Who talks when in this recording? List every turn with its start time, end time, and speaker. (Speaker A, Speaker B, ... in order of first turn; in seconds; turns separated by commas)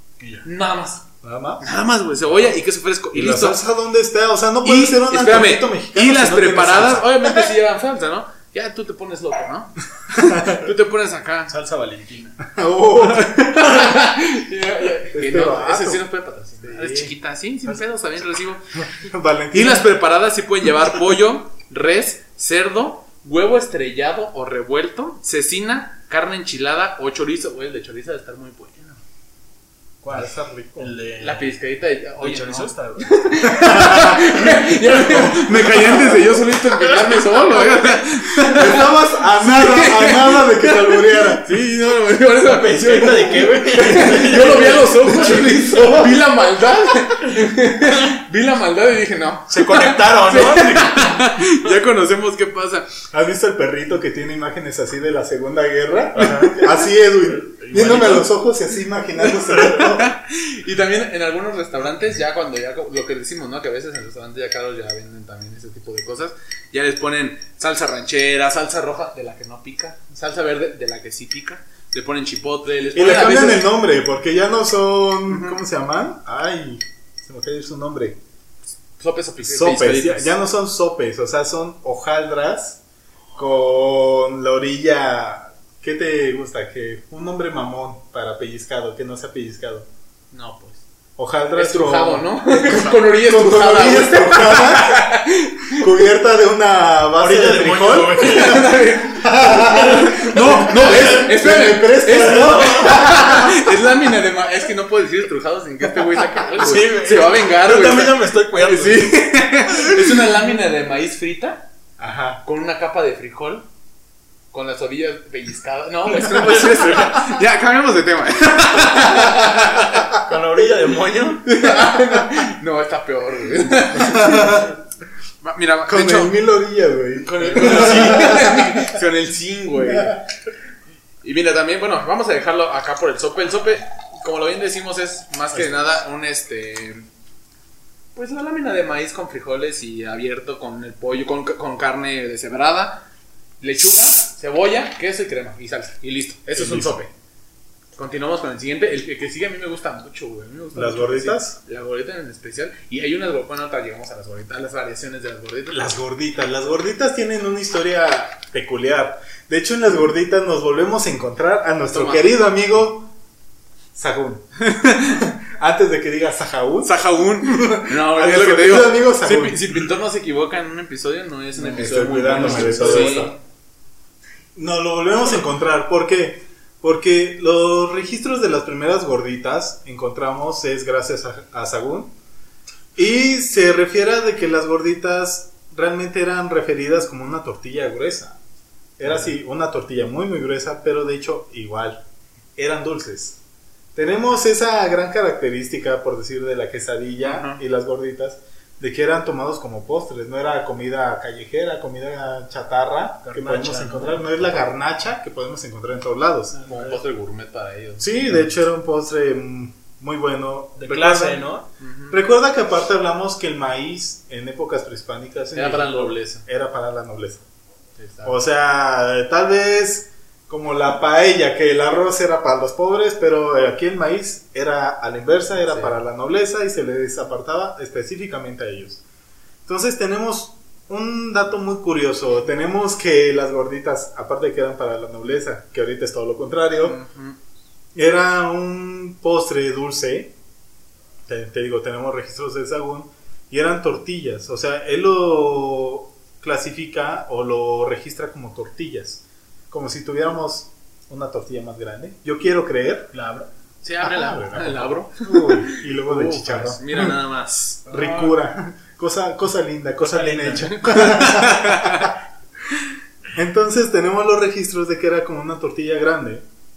Speaker A: 0.2-0.5, Speaker B: 0.4-1.0, Speaker C: 1.2-1.7, Speaker B: 1.6-3.6, Speaker C: 3.1-7.5, Speaker B: 4.6-11.6, Speaker C: 10.2-10.6, Speaker A: 11.5-12.4, Speaker C: 12.4-13.9, Speaker B: 13.0-18.7, Speaker C: 15.1-16.1, Speaker C: 16.6-17.1, Speaker C: 18.8-19.9, Speaker B: 19.5-29.0, Speaker A: 30.0-31.6, Speaker C: 30.1-30.9, Speaker B: 31.2-52.9, Speaker A: 32.2-33.2, Speaker C: 33.5-36.3, Speaker C: 38.4-41.5, Speaker A: 42.4-45.5, Speaker C: 44.5-46.1, Speaker A: 49.5-51.7, Speaker C: 53.1-60.1, Speaker A: 56.1-56.7, Speaker B: 56.2-56.6, Speaker A: 57.4-58.3, Speaker B: 59.6-73.7, Speaker C: 73.0-78.2, Speaker B: 75.3-75.6, Speaker B: 79.0-80.3, Speaker C: 79.4-82.8, Speaker C: 83.3-89.9, Speaker B: 90.3-90.8, Speaker C: 91.2-95.1, Speaker B: 91.5-95.9, Speaker C: 95.7-103.6, Speaker A: 97.2-98.8, Speaker B: 98.2-111.7, Speaker A: 99.6-101.2, Speaker A: 102.1-103.2, Speaker A: 106.5-109.2, Speaker C: 112.0-112.4, Speaker B: 112.4-113.7, Speaker B: 114.5-120.1, Speaker A: 116.3-117.1, Speaker A: 120.1-121.5, Speaker B: 121.5-124.7, Speaker C: 124.0-124.7, Speaker B: 125.4-126.3, Speaker C: 125.9-129.0, Speaker B: 127.2-130.2, Speaker A: 127.4-128.5, Speaker C: 129.8-130.2, Speaker B: 131.2-137.1, Speaker B: 138.2-143.1, Speaker B: 143.6-147.1, Speaker C: 146.6-147.0, Speaker B: 148.0-155.9, Speaker C: 150.8-151.6, Speaker C: 155.7-163.1, Speaker B: 161.9-162.3, Speaker C: 163.9-169.7, Speaker B: 166.8-173.3, Speaker A: 171.6-173.3, Speaker C: 171.7-173.4, Speaker C: 174.6-182.1, Speaker C: 183.0-188.4, Speaker C: 189.0-192.0, Speaker C: 192.6-193.4, Speaker C: 193.9-206.6, Speaker B: 197.2-197.6, Speaker A: 203.2-204.7, Speaker B: 206.5-208.5, Speaker A: 206.7-207.0, Speaker C: 208.0-211.5, Speaker A: 210.8-211.7, Speaker B: 211.8-212.2, Speaker C: 212.1-217.4, Speaker B: 215.5-216.4, Speaker B: 218.0-218.4, Speaker C: 218.2-229.0, Speaker B: 225.7-226.0, Speaker C: 229.7-237.0, Speaker B: 236.8-237.4, Speaker C: 237.9-240.3, Speaker C: 241.3-253.1, Speaker A: 253.1-253.5, Speaker B: 253.8-258.3, Speaker C: 254.0-257.2, Speaker C: 257.9-262.1, Speaker A: 257.9-258.2, Speaker A: 260.1-260.8, Speaker B: 260.7-262.1, Speaker C: 263.3-266.4